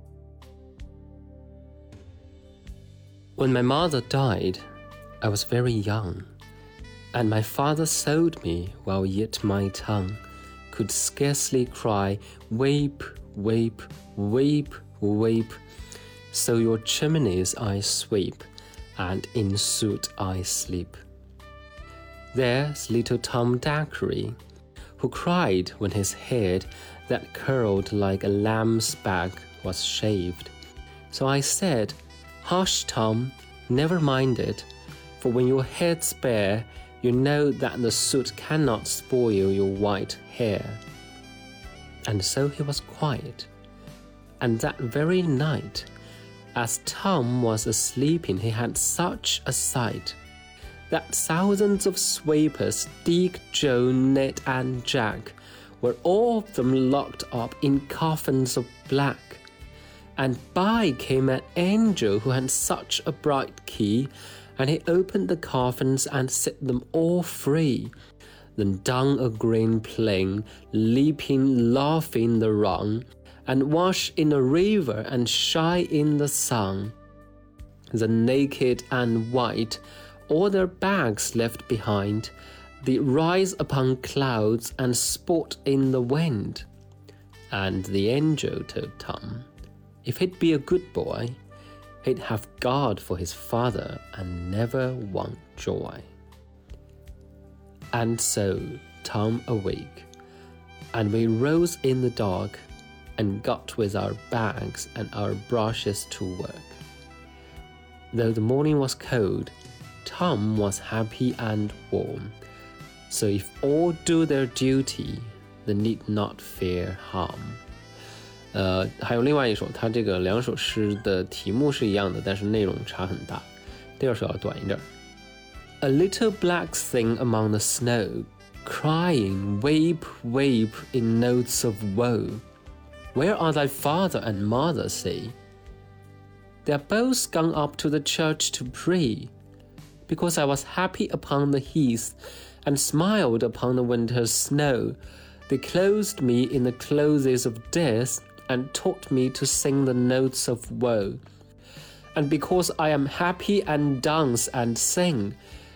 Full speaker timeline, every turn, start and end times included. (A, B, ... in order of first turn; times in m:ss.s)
0:03.4-0:04.6 A
0:05.2-0:06.3 A
0:07.1-0:10.2 A
0:10.7-0:15.6 A
0:16.3-0:18.4 A
0:19.0-0:21.0 A
0:22.3-0:24.4 A
0:25.0-0:30.5 A
0:31.1-0:34.7 A
0:35.2-0:40.8 A
0:42.1-0:43.5 A
0:44.4-0:45.9 A
0:46.6-0:50.2 A
0:50.9-0:59.4 A
1:00.2-1:07.9 A
1:08.6-1:17.0 A
1:17.9-1:22.3 A
1:22.8-1:26.7 A
1:27.5-1:29.5 A
1:30.0-1:31.4 A
1:32.0-1:36.1 A
1:37.9-1:40.1 A
1:40.9-1:42.6 A
1:43.2-1:46.8 A
1:48.1-1:49.5 A
1:50.0-1:52.3 A
1:53.1-1:57.6 A
1:58.5-2:03.5 A
2:04.0-2:04.8 A
2:05.8-2:12.4 A
2:13.1-2:15.4 A
2:16.6-2:19.3 A
2:20.1-2:31.2 A
2:32.2-2:35.4 A